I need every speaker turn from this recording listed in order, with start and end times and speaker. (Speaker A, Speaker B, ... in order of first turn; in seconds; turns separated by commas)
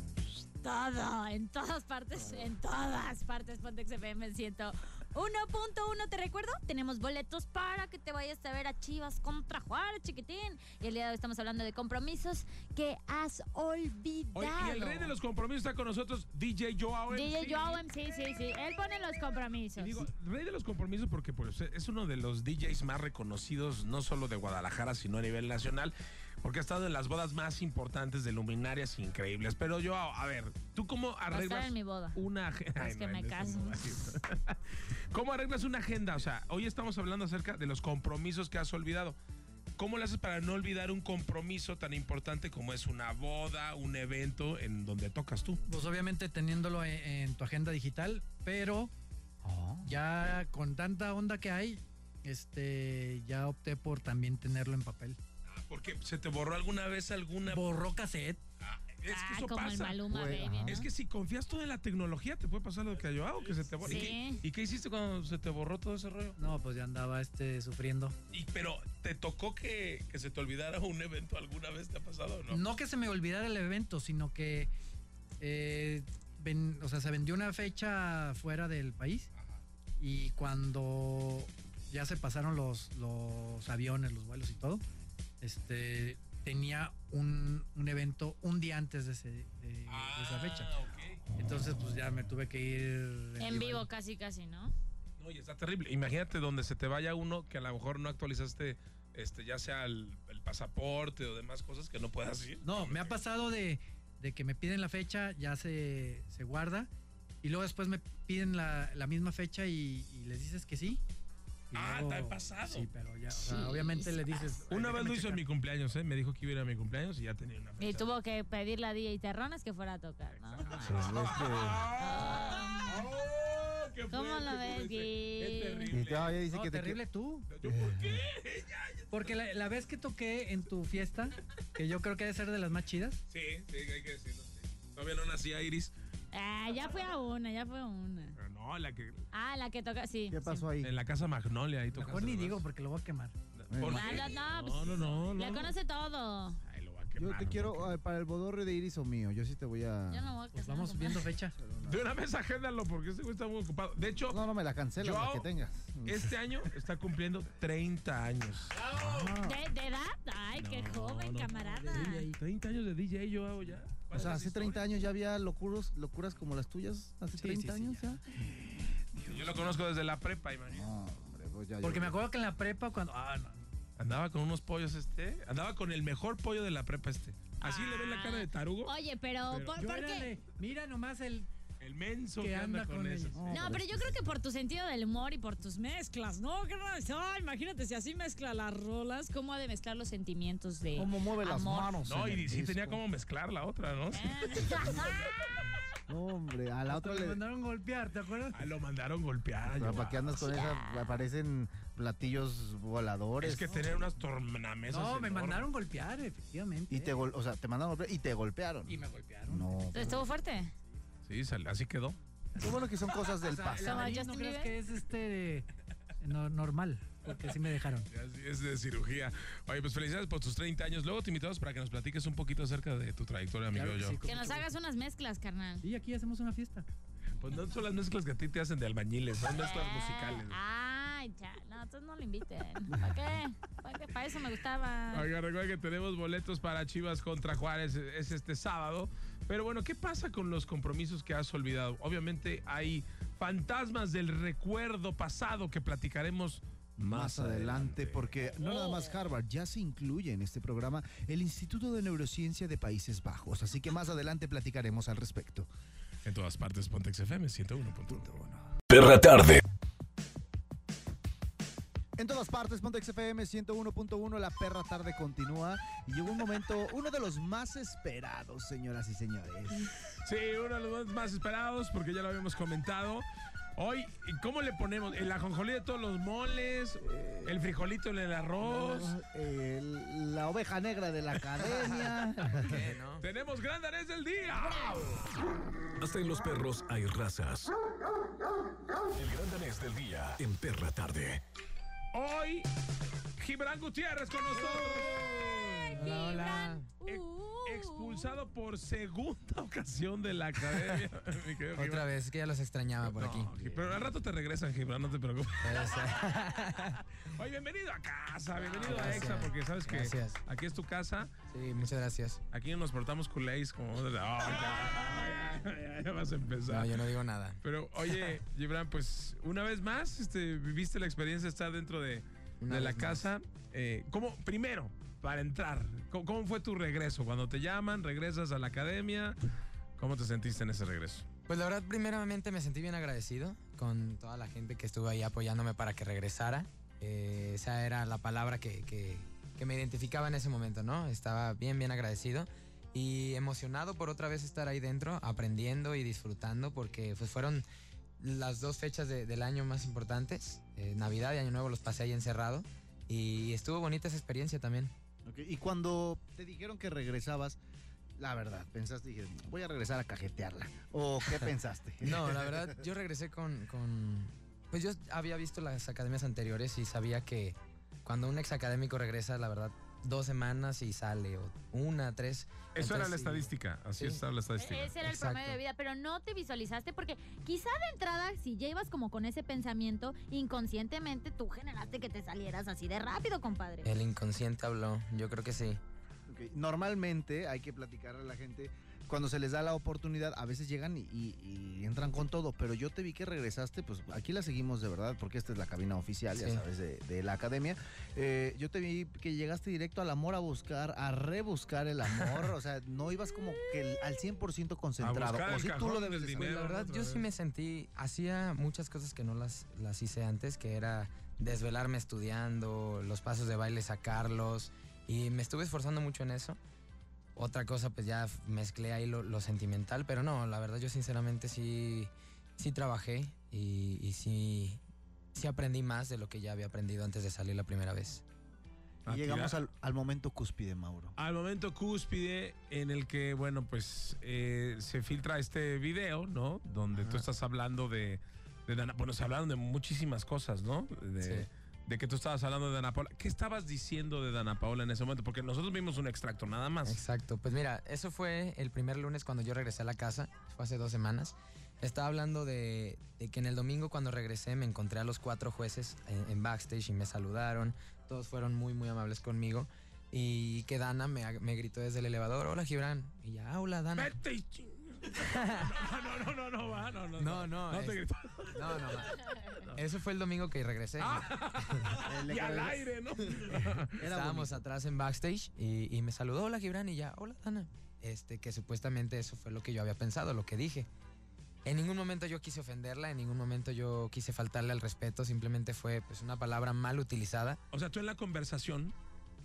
Speaker A: 0.6-15.1, Speaker B: 14.3-17.8, Speaker A: 17.1-20.1, Speaker B: 19.8-39.2, Speaker A: 31.3-32.2, Speaker A: 32.8-33.8, Speaker B: 39.8-45.6, Speaker C: 45.7-48.9, Speaker D: 49.4-50.0, Speaker C: 49.9-55.2, Speaker B: 55.5-57.7, Speaker C: 57.5-58.4, Speaker B: 58.6-60.1, Speaker A: 59.1-60.9, Speaker D: 60.1-60.9, Speaker B: 60.6-66.4, Speaker A: 63.8-64.4, Speaker C: 66.4-68.2, Speaker B: 68.3-72.6, Speaker C: 72.5-74.7, Speaker C: 75.4-79.3, Speaker C: 80.0-84.8, Speaker C: 85.4-90.7, Speaker B: 89.9-91.2, Speaker C: 91.4-93.9, Speaker A: 93.4-94.7, Speaker B: 95.2-103.2, Speaker C: 102.6-106.9, Speaker C: 107.4-111.0, Speaker C: 111.7-115.5, Speaker B: 111.7-112.9, Speaker A: 113.3-114.4, Speaker B: 114.7-118.1, Speaker A: 117.8-121.0, Speaker B: 120.6-126.4, Speaker D: 120.8-121.9, Speaker A: 122.0-123.1, Speaker A: 124.1-125.9, Speaker D: 125.9-127.0, Speaker C: 126.5-127.5, Speaker B: 127.5-129.3, Speaker D: 127.6-128.3, Speaker C: 129.1-133.2, Speaker B: 133.3-135.9, Speaker A: 136.3-138.4, Speaker B: 138.4-139.3, Speaker A: 139.3-140.7, Speaker D: 140.3-140.9, Speaker B: 140.8-142.6, Speaker C: 141.9-143.4, Speaker B: 143.6-145.7, Speaker D: 143.7-144.3, Speaker A: 143.8-146.6, Speaker B: 146.7-148.0, Speaker D: 147.2-150.3, Speaker A: 150.1-151.3, Speaker C: 150.5-151.5, Speaker D: 151.6-152.1, Speaker B: 151.8-154.4, Speaker D: 154.3-156.6, Speaker B: 155.0-155.5, Speaker B: 156.1-159.0, Speaker D: 158.8-159.6, Speaker A: 159.4-162.3, Speaker B: 160.6-165.1, Speaker C: 161.6-162.3, Speaker D: 164.1-169.8, Speaker C: 167.3-168.1, Speaker B: 169.2-170.9, Speaker D: 170.7-172.2, Speaker C: 171.8-173.7, Speaker B: 174.0-178.9, Speaker A: 177.6-180.3, Speaker C: 179.5-181.5, Speaker B: 181.8-183.7, Speaker C: 182.4-183.6, Speaker D: 183.3-184.3, Speaker A: 183.5-192.0, Speaker D: 190.9-193.0, Speaker B: 192.1-195.1, Speaker A: 194.1-195.4, Speaker D: 196.1-197.4, Speaker C: 196.9-198.6, Speaker B: 198.5-200.3, Speaker D: 199.7-204.1, Speaker A: 200.4-201.2, Speaker B: 203.4-205.7, Speaker C: 204.9-207.2, Speaker D: 206.9-210.2, Speaker C: 208.9-210.2, Speaker A: 209.9-210.7, Speaker B: 211.3-212.2, Speaker D: 212.6-214.2, Speaker C: 212.6-215.7, Speaker A: 213.8-214.8, Speaker C: 216.2-218.1, Speaker B: 218.1-224.2, Speaker C: 223.7-224.7, Speaker A: 224.2-225.8, Speaker C: 225.8-226.9, Speaker B: 227.4-230.6, Speaker A: 229.6-235.3, Speaker B: 235.1-248.3, Speaker D: 247.0-255.7, Speaker A: 248.6-249.1, Speaker B: 256.2-258.3, Speaker D: 258.1-258.7, Speaker E: 258.9-259.6, Speaker D: 262.2-269.9, Speaker B: 270.1-273.3, Speaker B: 273.8-279.1, Speaker D: 277.0-277.5, Speaker D: 278.6-282.8, Speaker F: 281.6-283.3, Speaker B: 283.2-285.4, Speaker E: 286.0-287.7, Speaker E: 289.1-291.4, Speaker B: 292.1-292.7, Speaker B: 293.4-295.7, Speaker D: 294.6-295.1, Speaker A: 295.2-298.4, Speaker F: 296.0-296.9, Speaker B: 297.1-302.1, Speaker F: 301.8-304.0, Speaker B: 303.0-311.3, Speaker F: 305.6-307.0, Speaker F: 308.7-310.4, Speaker F: 311.5-312.4, Speaker B: 312.5-317.1, Speaker F: 316.7-318.4, Speaker B: 317.6-329.4, Speaker F: 322.6-323.3, Speaker B: 330.0-331.2, Speaker F: 331.5-347.7, Speaker F: 348.2-354.9, Speaker D: 355.3-357.6, Speaker D: 358.2-362.8, Speaker F: 361.3-374.2, Speaker B: 372.8-374.9, Speaker A: 374.6-383.9, Speaker F: 375.0-375.6, Speaker F: 383.8-385.8, Speaker D: 386.3-406.8, Speaker F: 396.4-396.6, Speaker B: 405.0-407.3, Speaker F: 406.4-416.6, Speaker F: 417.4-424.8, Speaker F: 425.3-428.2, Speaker B: 429.1-429.6, Speaker D: 429.1-431.1, Speaker B: 431.2-447.0, Speaker D: 436.9-437.2, Speaker F: 441.2-441.5, Speaker F: 446.9-464.1, Speaker B: 463.9-469.8, Speaker F: 465.2-465.8, Speaker F: 467.2-469.2, Speaker F: 469.7-471.9, Speaker B: 471.0-474.0, Speaker D: 472.0-474.6, Speaker F: 474.0-480.9, Speaker F: 481.6-487.6, Speaker B: 487.7-488.9